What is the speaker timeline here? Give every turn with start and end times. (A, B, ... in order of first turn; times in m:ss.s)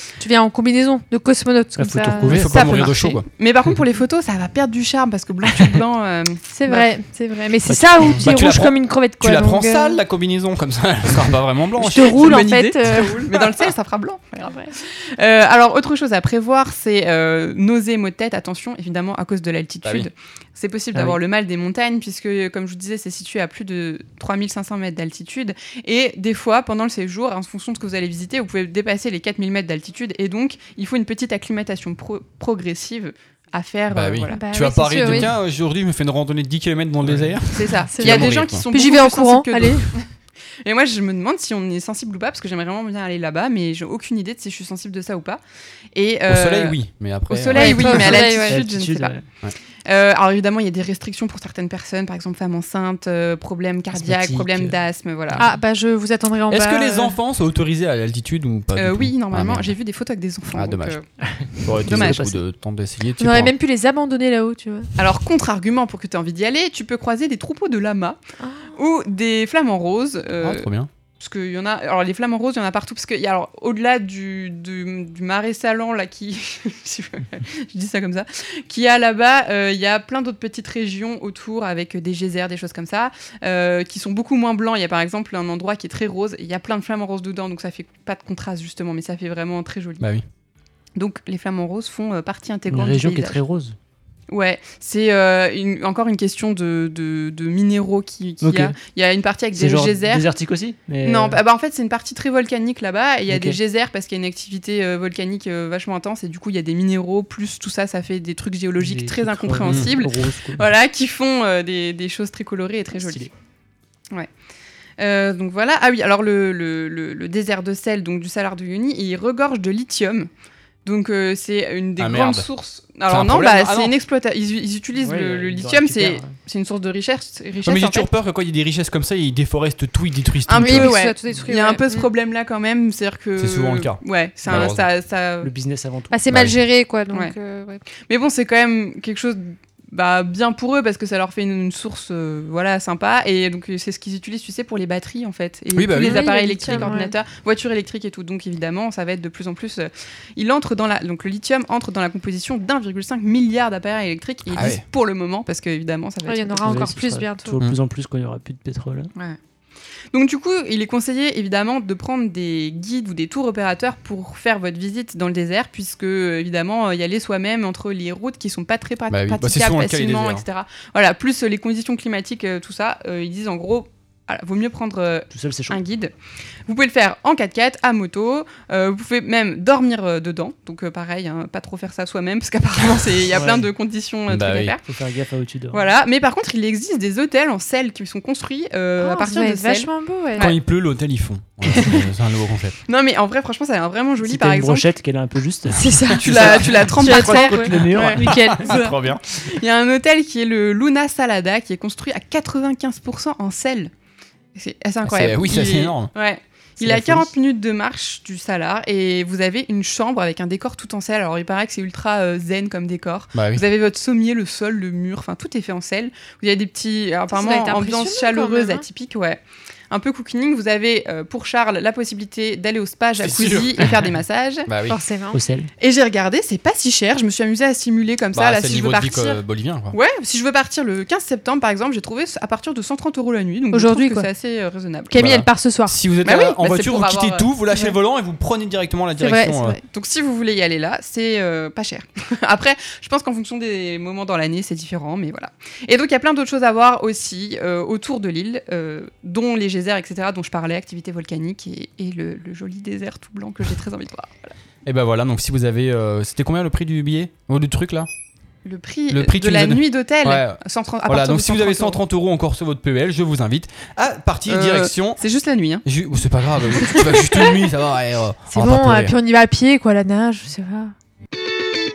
0:00.2-0:02.3 A
0:01.8-0:02.8 B
0:02.2-0:03.2 C
0:02.5-0:06.9 D
0:06.5-0:10.0 A
0:07.6-0:08.2 B
0:08.2-0:12.4 C
0:11.8-0:13.2 A
0:11.9-0:35.2 D
0:14.4-0:14.7 A
0:19.8-0:20.1 C
0:33.9-0:38.6 C
0:34.3-0:35.3 A
0:37.5-0:40.0 D
0:37.9-0:39.9 A
0:40.6-0:45.4 D
0:45.9-0:46.8 D
0:46.3-0:48.0 C
0:47.3-0:49.2 D
0:47.5-0:48.6 A
0:47.8-0:49.2 B
0:49.8-0:55.5 D
0:53.9-0:54.7 B
0:55.4-0:57.1 A
0:56.5-0:59.7 C
0:58.7-1:01.0 D
1:00.5-1:00.9 C
1:01.2-1:02.4 B
1:01.6-1:03.5 C
1:01.8-1:02.2 D
1:03.2-1:04.9 A
1:05.0-1:08.2 D
1:08.4-1:08.7 A
1:08.8-1:10.7 D
1:10.4-1:10.9 C
1:11.2-1:30.0 D
1:31.0-1:33.4 D
1:32.7-1:33.8 B
1:34.3-1:40.3 D
1:38.4-1:38.8 B
1:39.6-1:41.4 B
1:41.0-1:53.3 D
1:43.3-1:43.6 B
1:48.8-1:50.7 B
1:49.6-1:49.9 C
1:53.0-1:53.3 B
1:55.0-2:00.3 D
2:00.8-2:08.1 D
2:02.0-2:02.5 C
2:03.1-2:03.9 C
2:05.0-2:06.4 B
2:07.6-2:10.9 C
2:10.5-2:15.5 D
2:10.6-2:12.1 A
2:13.4-2:14.9 C
2:15.4-2:16.1 B
2:16.1-2:17.8 A
2:16.3-2:16.6 C
2:18.0-2:36.8 D
2:25.7-2:26.3 C
2:25.9-2:27.2 A
2:34.5-2:34.8 C
2:36.2-2:37.6 A
2:36.6-2:39.1 B
2:40.1-2:56.1 D
2:49.1-2:50.4 C
2:55.3-2:55.8 B
2:56.7-3:04.8 D
3:03.3-3:03.7 B
3:04.3-3:04.8 C
3:04.8-3:05.9 B
3:05.7-3:10.5 D
3:09.0-3:10.5 A
3:10.4-3:12.8 C
3:11.6-3:12.1 D
3:12.9-3:14.9 D
3:14.2-3:18.7 B
3:15.8-3:18.6 A
3:16.2-3:16.9 C
3:16.2-3:23.9 D
3:18.2-3:19.2 C
3:24.5-3:44.7 D
3:25.0-3:26.1 C
3:26.8-3:27.3 B
3:33.3-3:33.6 C
3:37.3-3:38.8 A
3:43.2-3:43.8 C
3:44.7-3:45.0 C
3:44.9-3:45.4 A
3:45.3-3:45.7 B
3:45.8-3:49.4 D
3:48.3-3:50.0 C
3:49.9-3:55.3 D
3:53.7-3:54.3 A
3:55.1-3:55.9 A
3:55.2-3:59.8 C
3:56.2-3:57.5 D
3:59.2-3:59.8 A
3:59.8-4:14.5 D
4:14.8-4:18.1 C
4:18.6-4:22.0 D
4:19.1-4:25.2 C
4:24.5-4:25.8 D
4:25.8-4:29.1 C
4:27.1-4:27.4 A
4:28.5-4:30.9 A